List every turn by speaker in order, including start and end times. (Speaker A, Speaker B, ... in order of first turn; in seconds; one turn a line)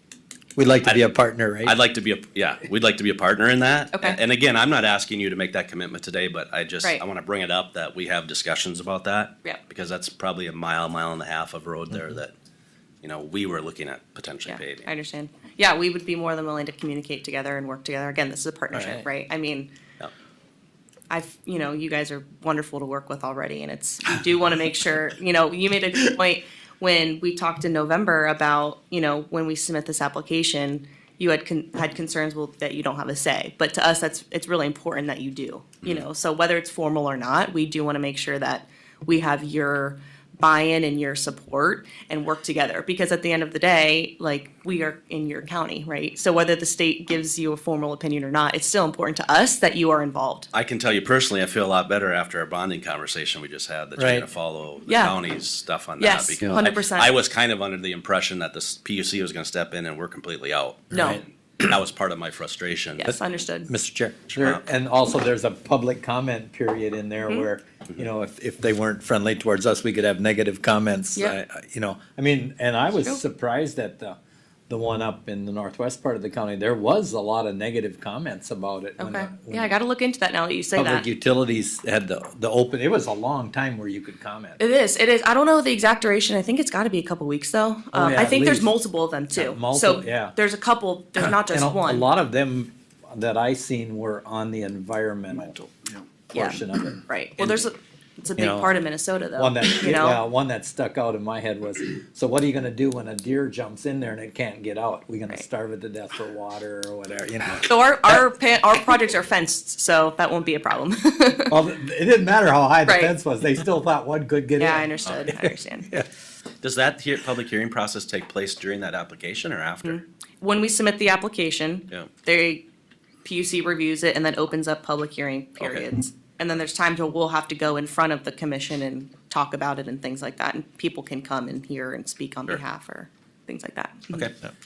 Speaker A: 0.6-1.8
Speaker B: 0.8-12.3
Speaker B: 13.0-14.9
Speaker C: 14.4-19.7
Speaker A: 18.7-19.0
Speaker C: 21.1-50.5
Speaker B: 50.5-63.1
Speaker A: 54.0-54.2
Speaker C: 54.9-55.2
Speaker C: 56.0-57.1
Speaker C: 60.9-61.2
Speaker A: 60.9-61.2
Speaker C: 63.0-63.7
Speaker A: 63.1-74.2
Speaker B: 64.3-64.6
Speaker C: 73.0-73.2
Speaker A: 74.7-79.7
Speaker C: 79.0-81.0
Speaker A: 80.8-84.6
Speaker C: 84.6-92.0
Speaker A: 87.9-88.7
Speaker A: 89.3-90.3
Speaker A: 91.2-95.7
Speaker A: 96.3-97.6
Speaker C: 96.3-100.2
Speaker A: 98.3-98.7
Speaker A: 99.3-108.2
Speaker C: 107.7-111.5
Speaker A: 111.5-116.1
Speaker C: 112.8-113.1
Speaker C: 114.6-116.0
Speaker B: 116.6-120.0
Speaker C: 119.8-122.7
Speaker C: 123.2-134.3
Speaker B: 125.6-125.8